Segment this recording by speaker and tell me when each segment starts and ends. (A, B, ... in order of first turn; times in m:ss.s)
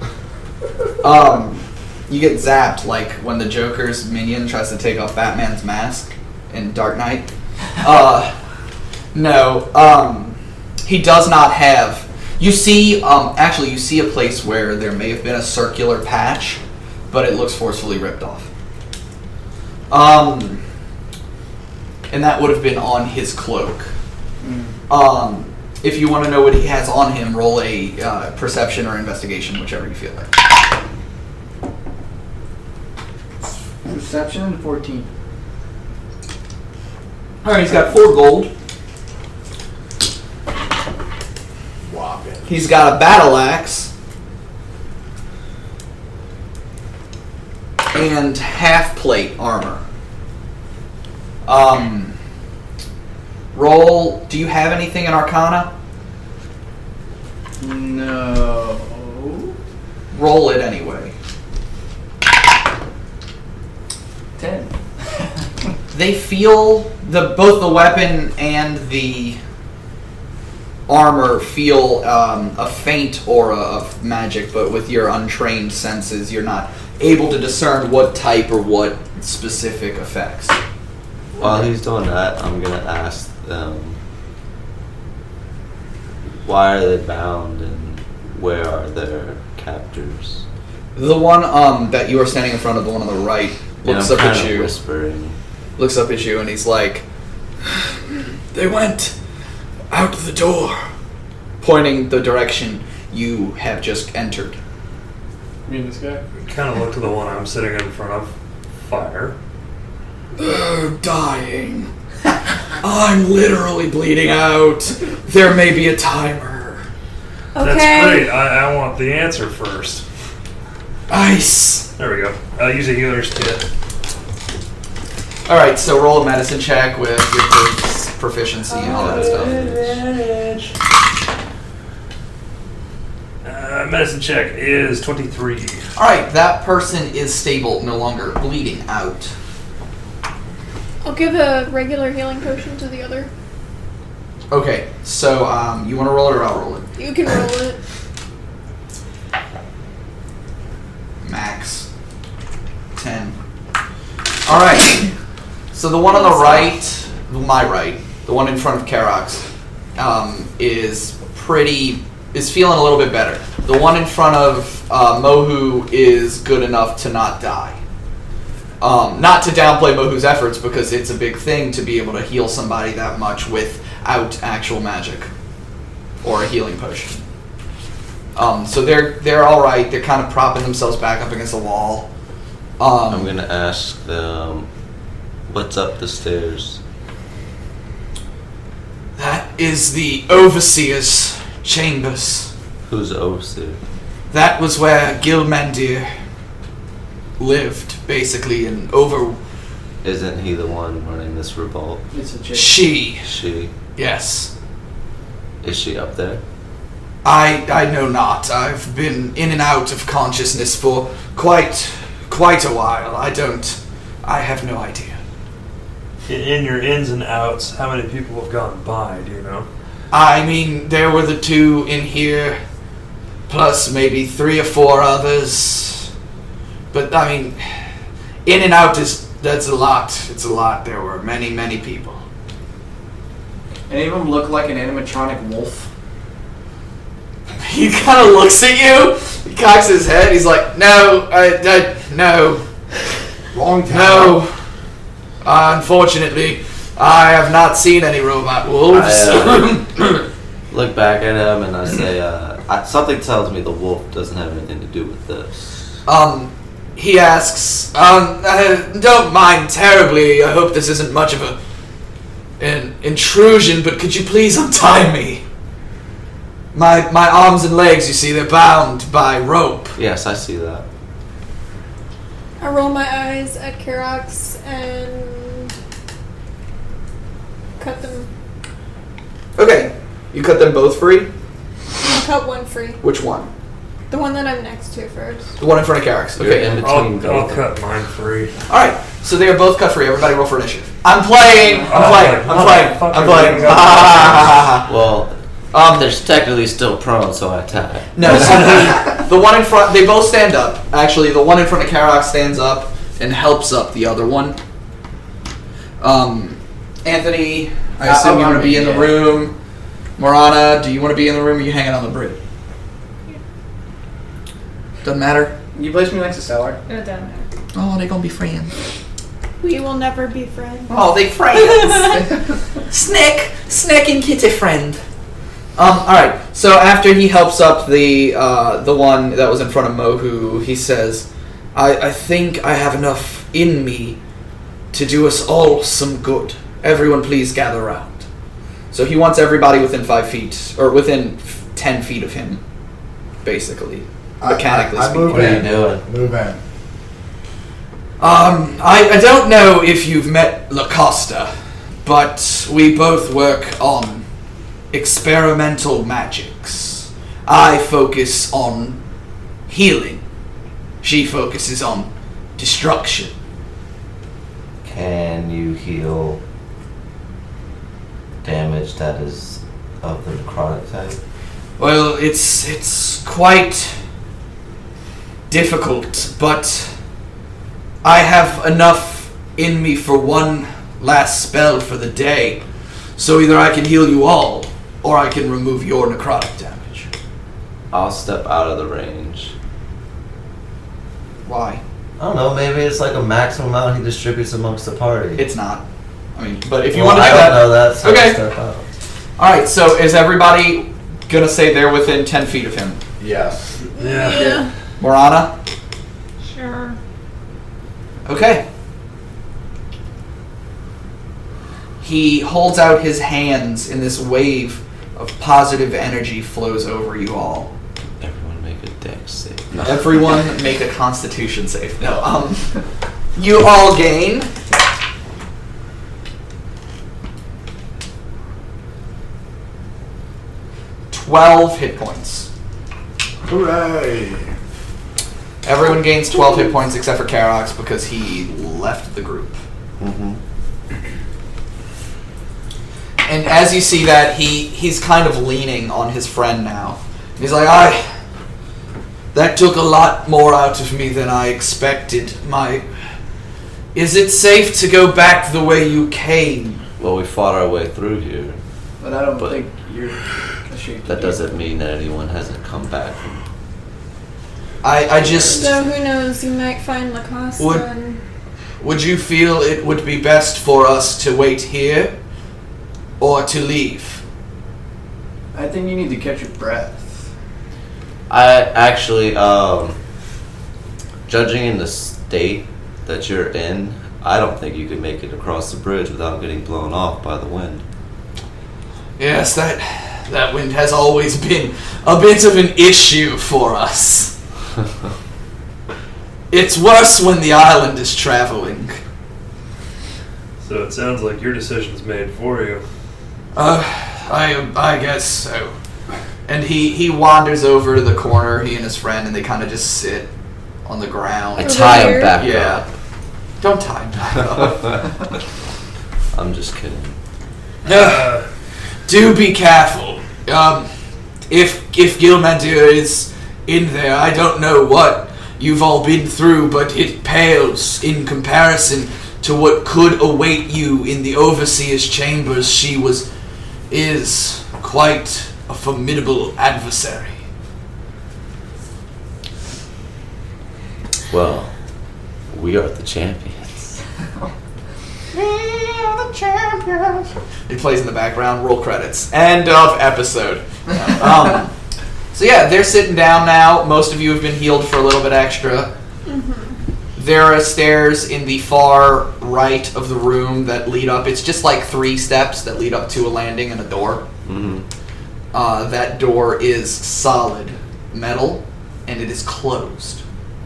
0:01.0-0:08.3 A
0:09.1-0:16.6 A
0:17.1-0:18.5 A
0:19.9-0:20.6 A
0:22.1-0:23.9 A
0:24.4-0:24.7 B
0:24.9-0:30.3 A
0:33.8-0:35.1 B
0:37.4-0:38.5 A
0:41.8-0:42.7 C
0:42.5-0:43.9 A
0:47.9-0:49.8 A
0:51.4-0:52.1 A
0:53.5-0:55.7 A
0:57.6-0:59.6 B
1:00.1-1:01.1 A
1:04.4-1:05.3 B
1:05.9-1:09.4 A
1:10.9-1:20.6 A
1:21.4-1:24.0 D
1:26.4-1:30.4 D
1:30.9-1:34.7 A
1:33.8-1:35.4 D
1:35.8-1:37.0 A
1:38.5-1:39.1 A
1:39.9-1:40.8 A
1:41.6-1:44.6 A
1:45.6-1:46.2 B
1:46.4-1:48.3 E
1:48.8-1:49.3 E
1:50.4-1:51.9 A
1:52.8-1:56.8 A
1:57.5-1:58.3 F
1:57.6-2:00.0 E
2:01.1-2:01.9 A
2:02.0-2:03.6 E
2:05.4-2:09.7 A
2:08.7-2:10.7 E
2:08.8-2:10.0 D
2:13.4-2:15.9 E
2:16.0-2:19.3 A
2:21.0-2:23.3 F
2:24.5-2:26.9 A
2:27.0-2:27.8 F
2:31.2-2:31.9 A
2:33.0-2:33.4 A
2:34.4-2:35.1 A
2:35.7-2:39.4 A
2:36.0-2:36.7 F
2:40.0-2:47.8 A
2:48.8-2:55.3 A
2:56.2-2:57.2 A
2:58.4-3:02.1 A
3:02.8-3:03.3 A
3:03.1-3:04.7 D
3:05.5-3:06.8 D
3:09.2-3:12.5 A
3:12.8-3:13.8 D
3:14.3-3:16.1 A
3:17.4-3:19.4 A
3:20.0-3:22.0 D
3:22.1-3:22.8 B
3:22.5-3:23.3 A
3:23.2-3:23.7 D
3:24.0-3:24.5 A
3:25.6-3:26.4 D
3:27.2-3:35.2 A
3:36.3-3:39.7 E
3:40.1-3:42.6 A
3:43.5-3:46.1 A
3:46.9-3:47.6 A
3:48.4-3:52.2 A
3:53.9-3:55.9 B
3:57.6-4:02.6 A
4:03.5-4:04.4 C
4:03.9-4:04.5 A
4:05.4-4:10.2 A
4:08.9-4:09.8 D
4:10.7-4:15.8 D
4:16.0-4:21.6 A
4:22.6-4:25.4 A
4:26.7-4:30.0 A
4:30.0-4:30.8 D
4:32.6-4:35.7 F
4:37.8-4:38.3 F
4:39.6-4:41.3 A
4:42.0-4:43.0 F
4:43.0-4:43.5 A
4:44.1-4:45.5 F
4:45.6-4:46.8 A
4:46.4-4:47.7 D
4:46.8-4:48.5 E
4:48.7-4:54.8 A
4:51.6-4:51.9 B
4:51.9-4:54.6 E
4:53.9-4:58.7 D
4:55.7-4:56.1 A
4:58.1-5:04.6 A
5:06.0-5:09.5 A
5:08.0-5:09.3 B
5:10.2-5:12.4 A
5:15.0-5:15.5 A
5:15.7-5:16.8 B
5:16.9-5:17.4 F
5:17.7-5:18.7 A
5:19.6-5:21.0 F
5:20.9-5:25.0 A
5:25.8-5:34.2 A
5:34.9-5:38.2 A
5:38.9-5:42.6 A
5:43.4-5:45.7 A
5:44.4-5:46.6 C
5:44.8-5:46.0 D
5:48.2-5:51.5 A
5:52.0-5:54.2 A
5:54.9-5:59.0 A
5:59.7-6:00.2 A
6:01.0-6:03.3 A
6:04.8-6:06.4 D
6:08.4-6:11.2 D
6:11.8-6:14.0 A
6:15.5-6:16.9 A
6:18.0-6:22.6 A
6:23.2-6:27.1 A
6:27.9-6:29.5 D
6:31.4-6:31.8 A
6:32.2-6:35.5 D
6:35.4-6:35.8 A
6:36.4-6:38.4 A
6:36.9-6:38.8 D
6:39.4-6:43.0 A
6:43.2-6:43.9 C
6:44.0-6:44.6 E
6:44.0-6:44.7 F
6:45.0-6:45.5 A
6:46.5-6:47.0 F
6:48.2-6:48.6 A
6:52.0-6:57.7 A
6:58.2-7:00.2 D
6:59.8-7:02.7 A
7:03.4-7:04.5 A
7:11.1-7:12.5 A
7:13.4-7:14.5 C
7:15.6-7:19.6 A
7:20.0-7:20.4 D
7:23.2-7:28.0 A
7:29.3-7:32.8 A
7:33.9-7:36.8 A
7:37.0-7:38.6 D
7:39.0-7:41.5 B
7:39.4-7:39.6 D
7:41.0-7:43.4 D
7:44.8-7:45.8 A
7:45.2-7:45.8 D
7:45.5-7:48.2 F
7:47.6-7:47.8 A
7:48.8-7:52.1 A
7:53.2-7:54.2 A
7:55.5-7:57.2 B
7:58.3-8:00.0 D
8:01.3-8:07.8 D
8:09.2-8:14.3 A
8:16.5-8:19.0 A
8:20.6-8:22.8 E
8:23.5-8:25.7 A
8:26.5-8:30.3 A
8:30.8-8:32.8 A
8:31.6-8:32.8 D
8:31.6-8:32.4 F
8:33.6-8:35.1 A
8:36.3-8:37.2 D
8:37.8-8:38.4 A
8:37.9-8:38.4 E
8:39.1-8:40.9 A
8:41.5-8:53.3 A
8:53.9-8:57.3 A
9:01.3-9:01.7 D
9:02.5-9:04.0 D
9:05.3-9:11.7 A
9:12.3-9:15.9 A
9:16.3-9:16.7 F
9:17.2-9:24.2 A
9:24.4-9:24.8 D
9:25.5-9:30.2 A